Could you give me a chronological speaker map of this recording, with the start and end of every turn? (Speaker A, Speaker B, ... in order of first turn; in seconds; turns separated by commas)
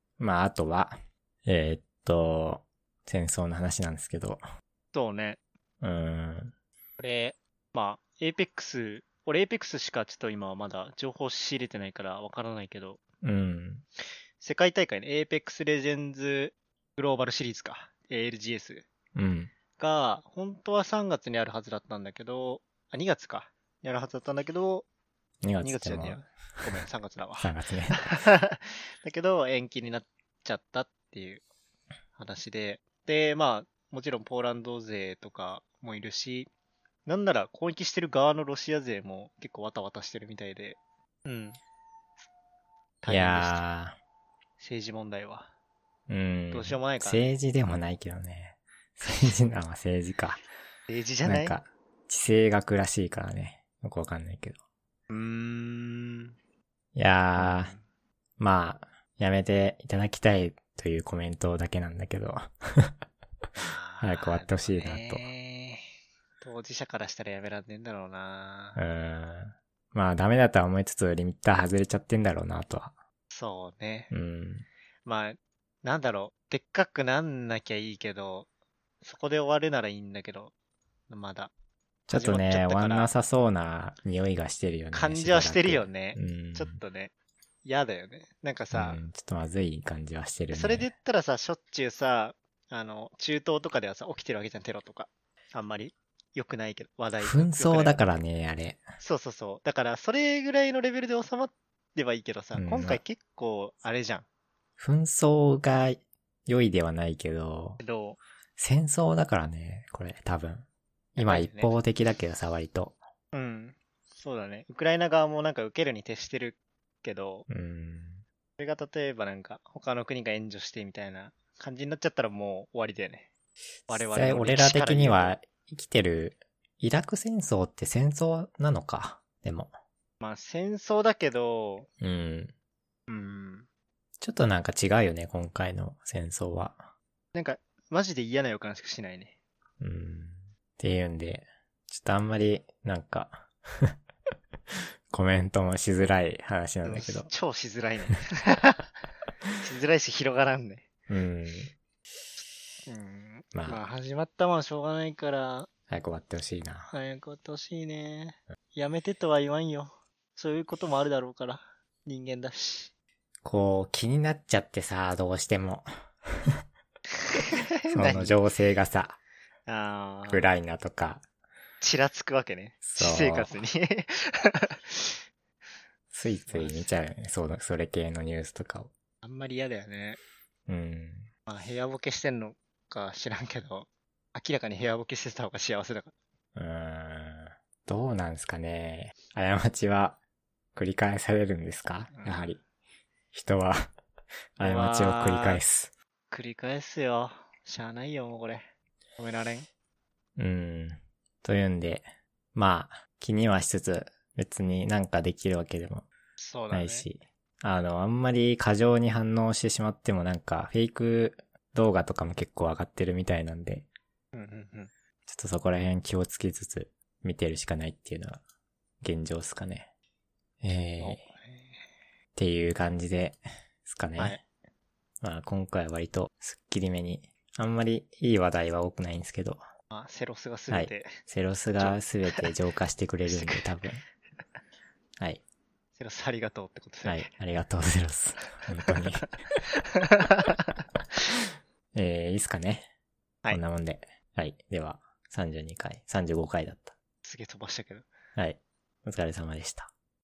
Speaker A: 0.2-4.4, Speaker B: 4.9-5.4, Speaker A: 5.8-6.5, Speaker B: 7.0-13.0, Speaker A: 13.2-13.8, Speaker B: 14.4-18.9, Speaker A: 19.1-19.5, Speaker B: 19.8-24.9, Speaker A: 25.4-26.6, Speaker B: 25.6-31.4, Speaker A: 27.4-28.2, Speaker B: 32.1-36.5, Speaker B: 37.0-41.6, Speaker B: 43.0-43.6, Speaker A: 43.1-44.0, Speaker B: 44.6-45.5, Speaker A: 46.1-50.4, Speaker B: 46.5-47.3, Speaker B: 50.9-51.5, Speaker A: 51.2-54.6, Speaker B: 55.1-56.3, Speaker A: 56.9-57.7, Speaker B: 57.4-57.8, Speaker A: 58.4-62.9, Speaker B: 63.6-65.9, Speaker A: 64.0-65.2, Speaker B: 66.4-68.8, Speaker A: 68.8-72.9, Speaker B: 73.3-74.1, Speaker A: 74.1-74.7, Speaker B: 75.0-78.5, Speaker B: 79.0-80.5, Speaker B: 81.1-81.5, Speaker A: 82.1-86.8, Speaker B: 82.1-83.1, Speaker B: 84.9-87.1, Speaker B: 87.6-89.0, Speaker A: 88.7-90.9, Speaker B: 90.5-98.0, Speaker A: 97.2-98.8, Speaker B: 99.0-104.2, Speaker A: 102.5-103.0, Speaker A: 104.8-107.8, Speaker B: 107.8-108.2, Speaker A: 108.6-113.0, Speaker B: 111.2-111.7, Speaker B: 113.3-117.5, Speaker A: 117.5-118.2, Speaker B: 118.6-123.3, Speaker A: 123.9-129.7, Speaker B: 123.9-125.3, Speaker B: 130.2-131.9, Speaker A: 132.0-132.5, Speaker B: 133.1-133.7, Speaker A: 134.2-136.9, Speaker B: 137.3-139.3, Speaker A: 139.8-143.9, Speaker A: 145.1-147.3, Speaker B: 146.8-148.9, Speaker B: 149.6-150.9, Speaker A: 151.1-151.7, Speaker B: 152.9-155.7, Speaker A: 153.5-153.8, Speaker A: 155.9-156.9, Speaker B: 156.9-162.9, Speaker A: 163.4-165.9, Speaker B: 167.3-168.4, Speaker A: 167.9-169.2, Speaker B: 169.7-170.4, Speaker A: 170.3-171.2, Speaker B: 171.8-175.2, Speaker A: 172.8-173.5, Speaker A: 176.1-178.9, Speaker B: 176.5-176.8, Speaker B: 179.2-180.2, Speaker A: 180.7-181.3, Speaker B: 181.5-186.1, Speaker A: 186.6-190.2, Speaker A: 190.7-192.6, Speaker B: 192.1-192.5, Speaker A: 193.3-193.9, Speaker A: 194.6-195.9, Speaker B: 194.6-195.6, Speaker B: 196.3-198.7, Speaker B: 199.2-199.7, Speaker A: 200.4-206.1, Speaker B: 206.4-207.1, Speaker A: 206.7-213.9, Speaker B: 214.3-214.9, Speaker A: 215.3-218.4, Speaker A: 219.0-219.9, Speaker A: 220.6-221.2, Speaker B: 221.0-221.7, Speaker A: 222.3-224.4, Speaker A: 225.2-229.6, Speaker B: 229.9-231.1, Speaker A: 230.7-234.0, Speaker B: 231.8-232.4, Speaker B: 233.2-233.7, Speaker B: 236.0-237.3, Speaker A: 237.0-239.3, Speaker B: 239.6-240.8, Speaker A: 241.9-242.9, Speaker A: 243.5-246.9, Speaker B: 247.2-248.1, Speaker A: 248.3-249.9